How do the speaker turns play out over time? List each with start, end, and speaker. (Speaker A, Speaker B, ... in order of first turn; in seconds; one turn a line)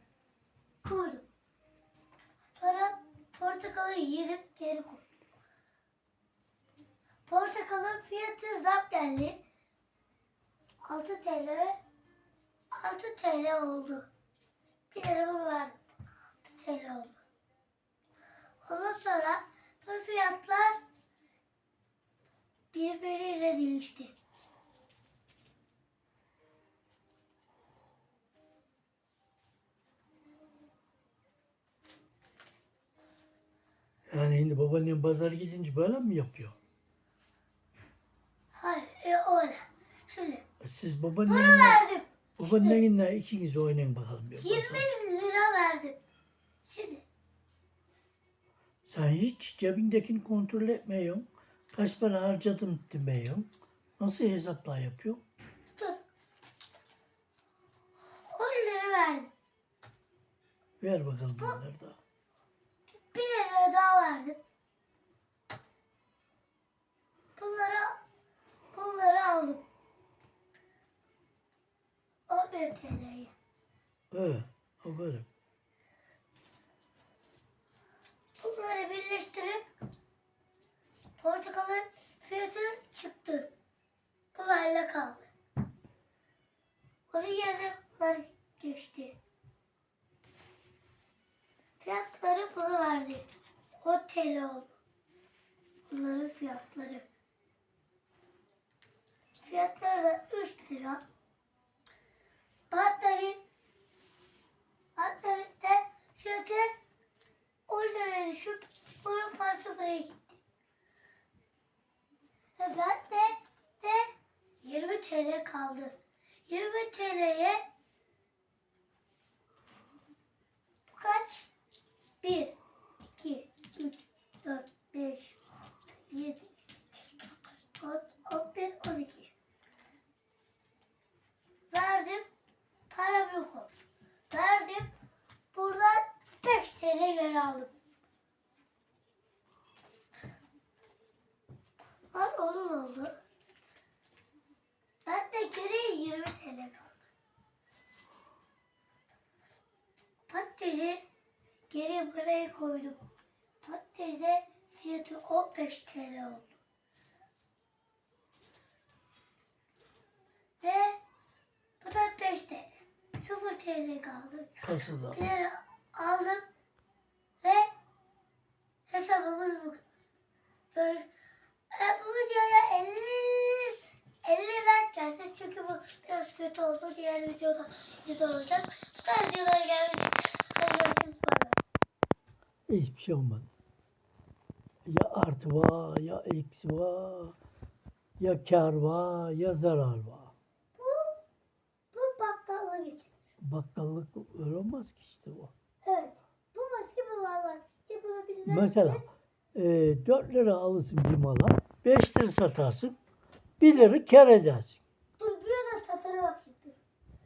Speaker A: 0.8-1.2
Speaker A: 2.6-5.0
Speaker A: 7.3-9.4
Speaker A: 10.8-11.8
Speaker A: 12.7-14.1
Speaker A: 14.9-15.8
Speaker A: 16.4-17.1
Speaker A: 18.6-20.8
Speaker A: 22.7-24.1
Speaker B: 34.1-36.5
Speaker A: 38.5-40.4
Speaker B: 40.6-41.8
Speaker A: 41.2-42.8
Speaker B: 42.4-44.9
Speaker A: 44.4-46.0
Speaker A: 46.6-47.0
Speaker B: 48.9-55.2
Speaker A: 55.8-56.0
Speaker A: 58.3-59.3
Speaker B: 60.8-62.0
Speaker A: 63.0-64.4
Speaker A: 67.4-68.0
Speaker A: 68.7-69.6
Speaker A: 72.3-73.3
Speaker B: 74.1-75.2
Speaker A: 78.4-79.7
Speaker A: 81.2-83.5
Speaker A: 84.3-85.3
Speaker A: 87.1-89.2
Speaker A: 91.8-93.3
Speaker A: 93.8-94.7
Speaker A: 95.9-97.0
Speaker A: 99.4-101.0
Speaker A: 102.7-103.4
Speaker A: 105.0-106.7
Speaker A: 107.7-110.2
Speaker A: 112.6-114.1
Speaker A: 114.6-117.6
Speaker A: 120.9-121.5
Speaker A: 122.2-122.6
Speaker A: 123.1-125.4
Speaker A: 126.0-126.5
Speaker A: 127.8-129.3
Speaker A: 131.7-132.2
Speaker A: 132.9-133.7
Speaker A: 134.3-134.9
Speaker A: 135.5-137.7
Speaker A: 142.1-143.2
Speaker A: 145.1-146.9
Speaker A: 150.3-151.0
Speaker A: 151.7-153.0
Speaker A: 153.6-156.5
Speaker A: 160.6-161.0
Speaker A: 161.8-166.4
Speaker B: 164.6-165.2
Speaker A: 167.4-167.7
Speaker A: 168.9-169.8
Speaker A: 170.7-171.1
Speaker A: 171.7-181.6
Speaker B: 182.7-183.5
Speaker B: 184.8-187.3
Speaker B: 188.2-190.3
Speaker A: 190.8-191.2
Speaker A: 191.9-193.1
Speaker B: 193.4-195.5
Speaker A: 195.8-199.1
Speaker B: 198.4-202.9
Speaker B: 203.6-204.8
Speaker A: 205.2-206.8